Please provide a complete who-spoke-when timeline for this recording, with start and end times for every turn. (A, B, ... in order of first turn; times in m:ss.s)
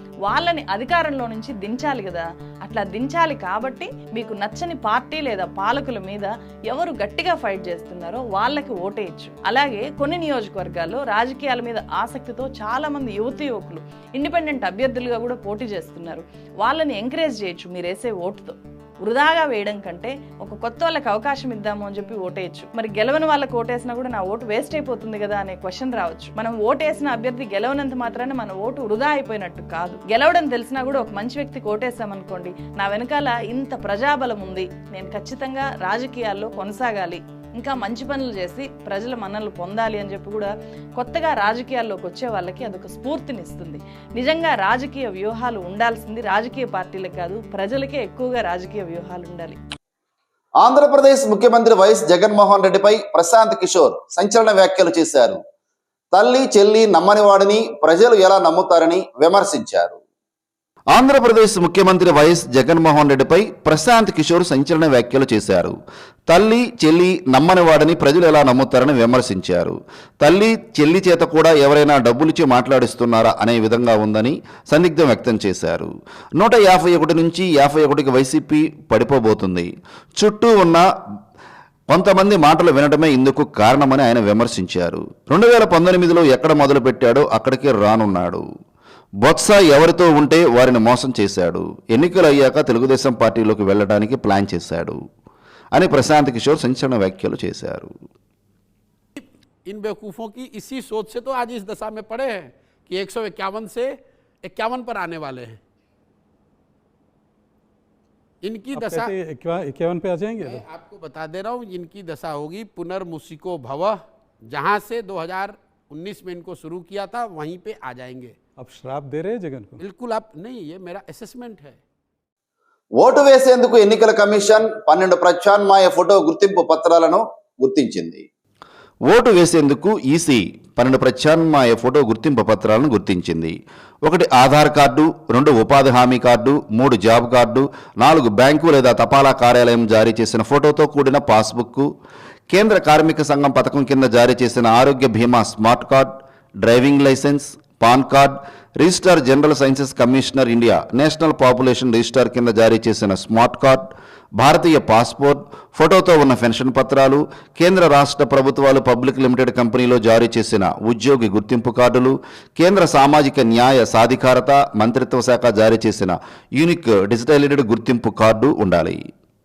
0:00.2-0:49.6 A
0:50.6-0:55.4 B
0:56.1-1:00.0 B
1:00.9-1:05.8 C
1:06.3-1:20.8 C
1:21.9-1:28.4 C
1:29.2-1:35.0 C
1:35.7-1:37.9 C
1:39.2-1:45.6 D
1:48.4-1:49.1 D
1:48.7-1:50.6 E
1:50.4-1:54.0 D
1:54.5-1:58.4 D
1:58.6-1:59.8 E
1:59.8-2:01.8 D
2:03.0-2:08.2 B
2:09.1-2:21.9 C
2:22.5-2:49.1 C